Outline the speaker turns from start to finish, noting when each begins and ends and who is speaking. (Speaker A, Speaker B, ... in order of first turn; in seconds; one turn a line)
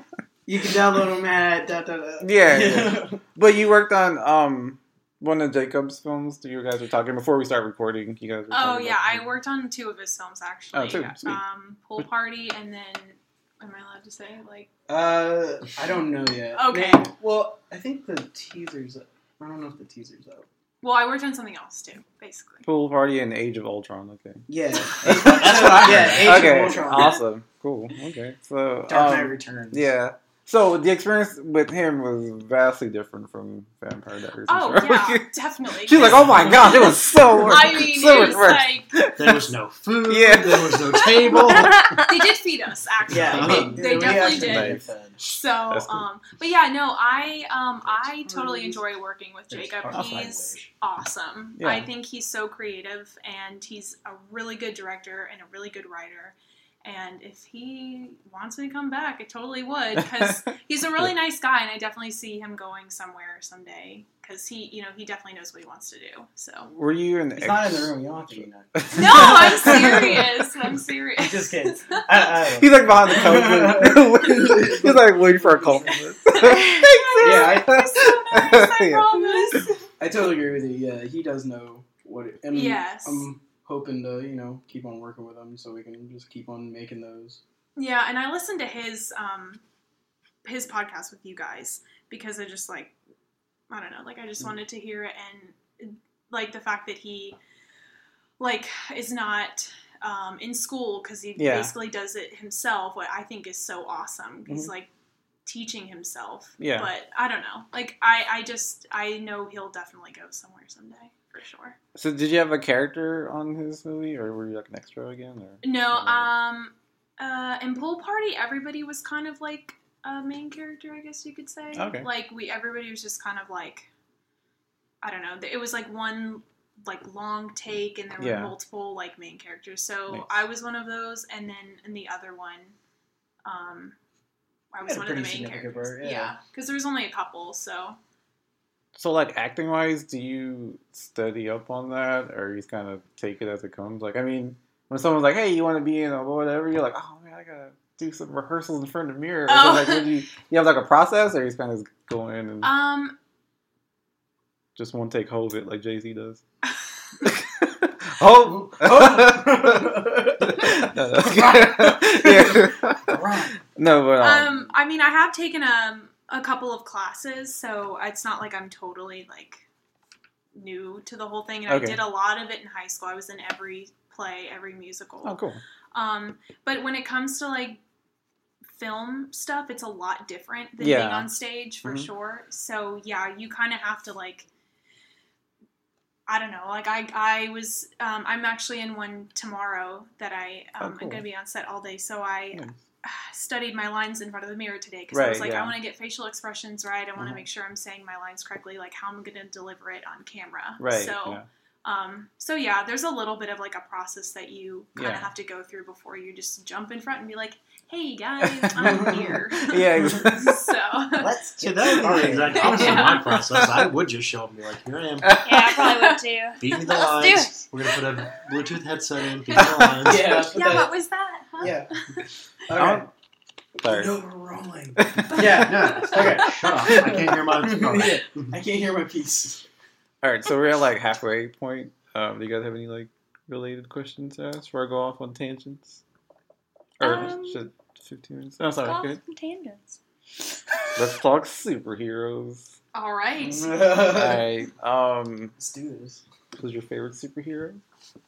Speaker A: 0.5-3.2
Speaker B: 2.2-9.3
Speaker C: 8.5-14.7
Speaker B: 10.7-11.4
Speaker A: 14.9-20.4
Speaker C: 16.5-17.1
Speaker C: 20.8-22.6
Speaker B: 22.6-39.5
Speaker A: 24.5-27.2
Speaker D: 25.1-26.7
Speaker C: 26.8-27.1
Speaker A: 28.9-29.9
Speaker C: 34.5-39.0
Speaker A: 36.0-36.7
Speaker D: 39.1-42.1
Speaker B: 40.0-41.3
Speaker C: 40.9-66.7
Speaker D: 43.1-43.8
Speaker A: 43.1-45.3
Speaker B: 43.9-44.8
Speaker B: 45.7-46.0
Speaker A: 47.9-48.8
Speaker A: 49.5-50.7
Speaker B: 49.9-50.2
Speaker B: 51.6-51.9
Speaker B: 66.7-70.1
Speaker A: 67.3-70.2
Speaker C: 68.9-72.0
Speaker A: 71.2-76.0
Speaker B: 72.6-79.6
Speaker C: 75.9-79.8
Speaker A: 77.2-77.8
Speaker A: 80.0-87.4
Speaker C: 82.5-83.3
Speaker C: 87.8-89.6
Speaker C: 90.4-92.9
Speaker C: 93.7-97.4
Speaker C: 98.4-104.9
Speaker B: 101.3-101.8
Speaker C: 105.5-111.8
Speaker B: 106.6-106.9
Speaker B: 112.0-116.3
Speaker C: 115.6-123.9
Speaker B: 121.7-122.1
Speaker C: 125.0-132.8
Speaker B: 128.2-128.5
Speaker C: 133.4-133.9
Speaker C: 134.7-138.0
Speaker A: 134.8-136.3
Speaker B: 138.9-152.7
Speaker C: 149.5-150.2
Speaker C: 152.6-153.1
Speaker B: 154.8-156.4
Speaker B: 157.2-164.7
Speaker A: 158.4-163.6
Speaker C: 164.2-169.6
Speaker C: 170.5-175.4
Speaker B: 171.7-172.0
Speaker B: 175.2-175.6
Speaker C: 175.9-177.8
Speaker C: 178.7-184.5
Speaker B: 180.8-181.3
Speaker B: 181.8-182.1
Speaker C: 186.3-211.4
Speaker B: 190.8-191.2
Speaker B: 195.1-195.8
Speaker B: 200.8-201.4
Speaker B: 204.9-205.3
Speaker B: 208.4-210.7
Speaker A: 208.8-209.3
Speaker A: 211.2-213.0
Speaker D: 211.6-215.4
Speaker C: 212.5-213.6
Speaker B: 213.6-213.8
Speaker E: 215.4-217.6
Speaker C: 215.6-216.2
Speaker D: 216.6-220.4
Speaker C: 219.4-222.3
Speaker A: 220.0-220.9
Speaker A: 221.6-221.9
Speaker A: 222.7-223.1
Speaker B: 222.7-223.1
Speaker A: 223.8-229.6
Speaker B: 223.8-224.1
Speaker B: 224.9-226.1
Speaker D: 225.5-228.5
Speaker B: 230.2-236.0
Speaker B: 237.0-239.2
Speaker E: 237.0-237.7
Speaker E: 238.8-240.0
Speaker B: 240.9-242.7
Speaker C: 242.9-243.8
Speaker A: 243.4-244.5
Speaker B: 244.0-245.6
Speaker A: 245.6-246.2
Speaker B: 246.6-247.8